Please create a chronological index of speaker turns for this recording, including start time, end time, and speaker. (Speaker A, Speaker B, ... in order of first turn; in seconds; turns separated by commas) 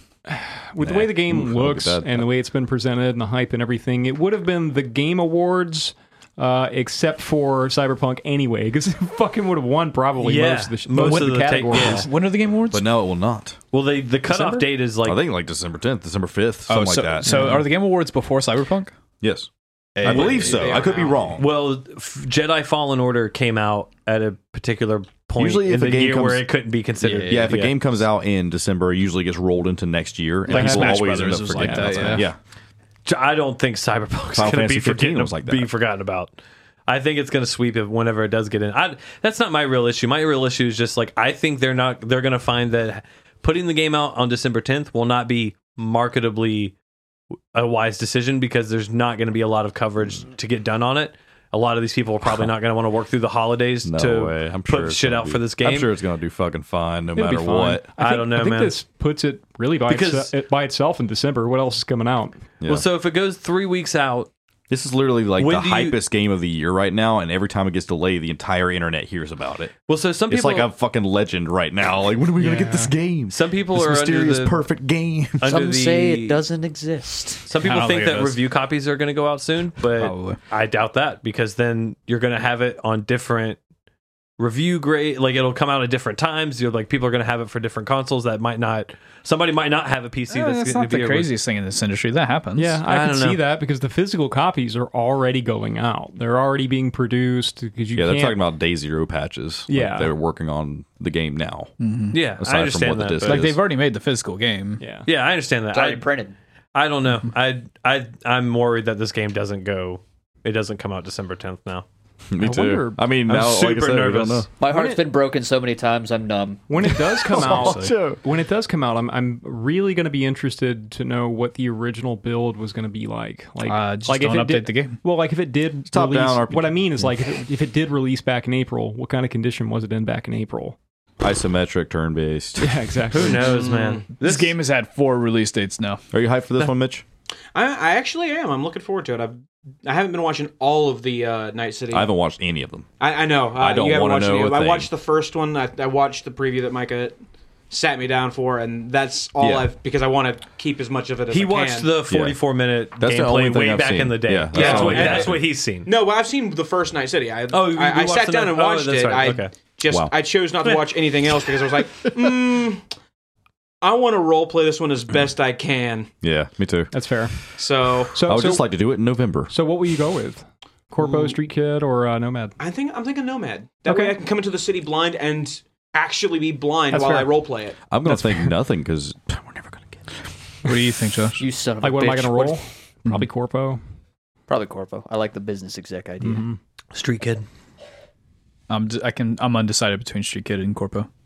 Speaker A: 0.3-12.1, Speaker B: 0.8-2.3, Speaker C: 10.2-12.1, Speaker D: 11.0-12.9, Speaker B: 12.7-13.6, Speaker C: 13.7-15.2, Speaker B: 15.0-17.6, Speaker D: 16.7-18.9, Speaker A: 17.3-17.6, Speaker B: 19.2-19.5, Speaker D: 20.0-21.1, Speaker B: 20.0-21.5, Speaker C: 20.0-20.8, Speaker C: 21.4-27.8, Speaker B: 25.4-26.5, Speaker D: 27.0-27.6, Speaker B: 27.3-32.4, Speaker D: 30.5-32.3, Speaker A: 30.5-32.3, Speaker C: 33.1-36.3, Speaker B: 34.3-35.7, Speaker C: 36.9-46.7, Speaker C: 47.5-55.9, Speaker B: 53.8-57.9, Speaker A: 57.1-62.4, Speaker C: 58.0-58.8, Speaker C: 59.9-60.3, Speaker B: 62.6-62.9, Speaker C: 62.7-64.3, Speaker B: 64.7-69.7, Speaker C: 65.4-66.0, Speaker C: 69.9-70.7, Speaker B: 70.3-75.5, Speaker A: 72.4-72.9, Speaker C: 73.3-74.6, Speaker C: 75.4-76.4, Speaker E: 75.5-77.4, Speaker C: 77.5-83.6, Speaker D: 77.6-78.4, Speaker D: 80.0-80.4, Speaker C: 84.4-91.3, Speaker D: 90.3-92.8, Speaker A: 92.6-98.4, Speaker C: 92.9-93.5, Speaker B: 98.0-101.7, Speaker A: 99.7-100.1, Speaker D: 101.8-102.2, Speaker C: 102.1-103.5, Speaker B: 102.4-103.6, Speaker D: 103.2-104.8, Speaker A: 104.8-105.1, Speaker C: 105.1-106.1, Speaker E: 105.7-106.3, Speaker C: 106.8-111.8, Speaker B: 112.3-114.5, Speaker A: 112.4-113.0, Speaker C: 113.3-114.5, Speaker E: 114.6-116.7, Speaker A: 114.6-115.0, Speaker A: 116.7-130.8, Speaker B: 117.1-118.2, Speaker D: 117.3-117.9, Speaker D: 123.6-125.0, Speaker B: 125.9-127.0, Speaker B: 131.2-133.0, Speaker A: 132.6-133.8, Speaker C: 133.1-134.5, Speaker F: 133.7-134.0, Speaker D: 134.2-136.0, Speaker B: 136.1-137.1, Speaker F: 137.5-142.1, Speaker B: 141.9-142.9, Speaker F: 143.0-147.2, Speaker B: 143.5-144.9, Speaker F: 147.7-151.9, Speaker B: 149.4-149.7, Speaker C: 151.3-155.9, Speaker B: 152.1-152.4, Speaker B: 153.0-155.4, Speaker F: 154.5-162.8, Speaker C: 157.5-159.6, Speaker F: 163.8-166.1, Speaker B: 166.2-166.9, Speaker A: 166.9-167.4, Speaker F: 167.5-168.3, Speaker A: 168.2-168.7, Speaker B: 168.2-169.5, Speaker A: 169.5-172.6, Speaker F: 171.0-171.4, Speaker F: 172.6-177.8, Speaker D: 173.9-174.2, Speaker A: 176.9-177.4, Speaker B: 177.9-180.0, Speaker A: 178.1-178.6, Speaker D: 180.6-181.4, Speaker E: 181.4-182.6, Speaker A: 181.8-183.8, Speaker E: 184.5-186.5, Speaker A: 186.2-186.6, Speaker C: 186.9-187.5, Speaker D: 188.7-191.1